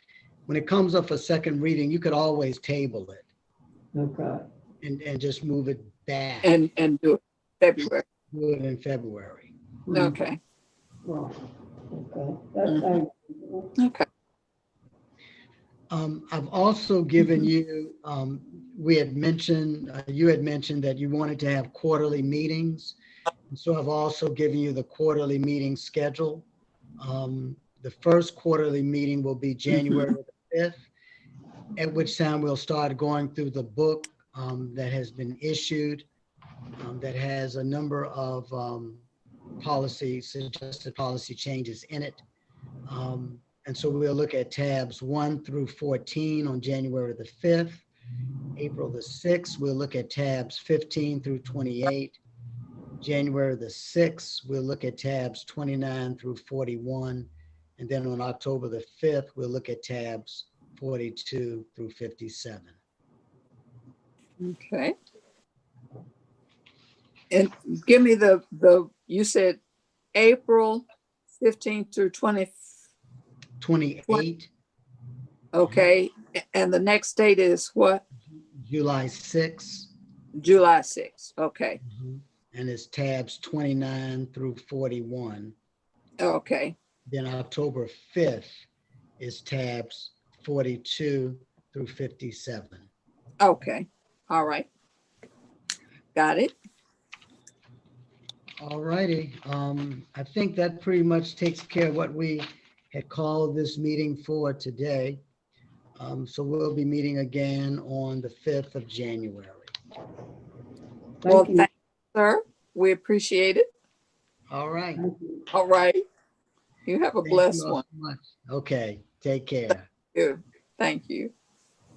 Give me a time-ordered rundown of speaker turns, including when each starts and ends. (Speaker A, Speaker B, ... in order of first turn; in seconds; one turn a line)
Speaker A: 0.5-3.2
Speaker B: 3.9-4.5
Speaker A: 4.8-6.5
Speaker C: 6.4-8.0
Speaker A: 8.3-9.5
Speaker B: 9.9-10.2
Speaker C: 9.9-10.4
Speaker B: 11.0-13.7
Speaker C: 13.8-14.0
Speaker A: 15.9-22.9
Speaker A: 23.5-26.4
Speaker A: 27.0-30.8
Speaker A: 31.8-36.0
Speaker A: 36.8-39.0
Speaker A: 39.6-42.2
Speaker A: 42.9-47.9
Speaker A: 48.5-52.2
Speaker A: 53.0-62.7
Speaker C: 64.4-64.9
Speaker C: 67.3-69.6
Speaker C: 70.1-70.8
Speaker C: 71.4-72.5
Speaker A: 73.6-74.5
Speaker C: 75.5-78.0
Speaker A: 78.5-79.9
Speaker C: 80.4-81.8
Speaker A: 81.8-85.5
Speaker C: 86.2-86.8
Speaker A: 87.1-88.6
Speaker A: 89.2-92.9
Speaker C: 93.4-94.7
Speaker C: 96.1-96.5
Speaker A: 98.6-105.2
Speaker A: 106.0-109.7
Speaker B: 111.2-111.7
Speaker C: 111.2-113.7
Speaker A: 114.5-115.0
Speaker B: 115.0-115.5
Speaker C: 115.5-116.0
Speaker C: 116.8-117.8
Speaker A: 117.2-119.8
Speaker C: 120.1-121.3